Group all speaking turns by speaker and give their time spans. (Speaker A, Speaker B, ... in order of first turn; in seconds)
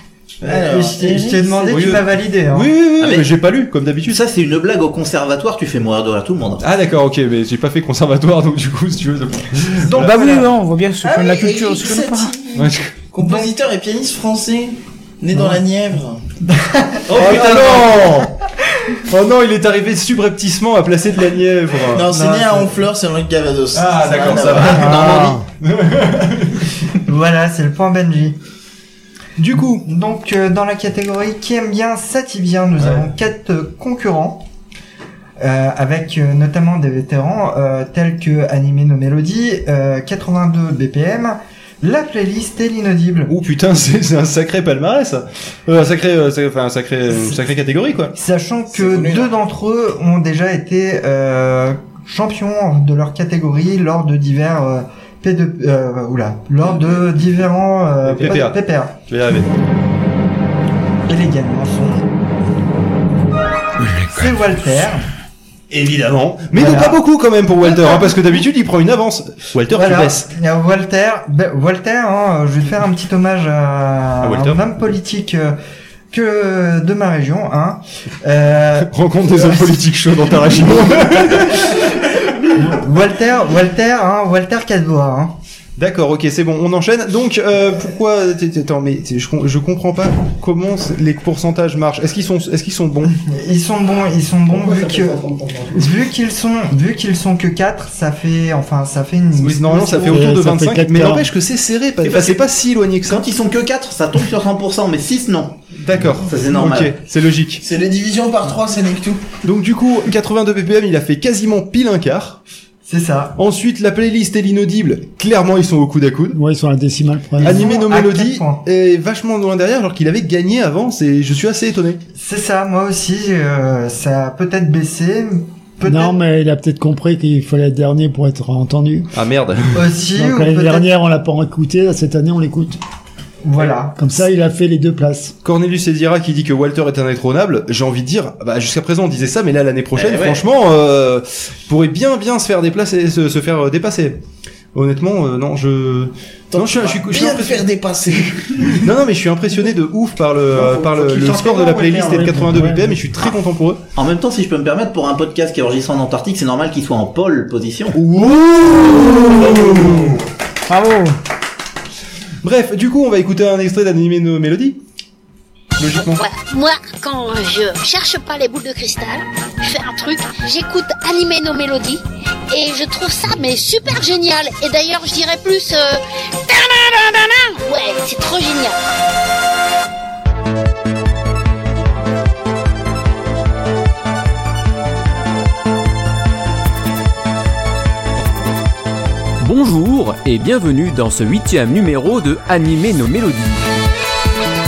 Speaker A: 0.4-1.9, 11.0-12.6, 13.1-16.2, 21.9-25.3, 48.7-49.3, 107.6-109.3, 146.5-148.8
Speaker B: 0.4-2.7, 13.2-13.5, 16.5-17.0, 22.1-22.7, 27.1-28.4, 29.8-34.5, 35.4-43.3, 48.1-59.0, 61.1-62.0, 64.1-65.1, 66.5-67.0, 67.6-68.1, 69.7-75.6, 76.1-79.8, 82.6-85.4, 93.0-100.3, 112.9-113.4, 117.4-118.6, 122.2-126.2, 129.7-130.9, 133.4-134.0
Speaker C: 1.7-4.1, 6.6-10.2, 12.6-12.9, 17.1-18.3, 19.1-22.1, 23.7-26.5, 29.4-29.9, 32.8-33.1, 43.3-48.1, 58.0-58.5, 59.1-59.5, 65.7-70.3, 74.2-74.6, 78.9-81.7, 85.8-93.1, 99.4-103.3, 105.8-107.6, 109.4-112.4, 113.4-116.4, 117.4-122.0, 129.1-129.8, 135.4-144.2, 144.8-147.7, 148.8-153.8, 158.0-160.1, 162.4-164.8, 165.8-166.2
Speaker D: 3.0-3.3, 4.0-6.7, 17.1-17.9, 102.0-102.4, 103.0-105.6, 106.2-107.0, 140.0-140.4, 154.0-158.0
Speaker E: 9.9-12.3, 24.8-25.4, 160.7-161.1
Speaker F: 100.1-101.3, 116.3-117.6, 125.8-129.1, 130.2-132.8, 134.0-135.3, 151.3-153.0
Speaker G: 166.1-178.8
Speaker H: 189.4-193.6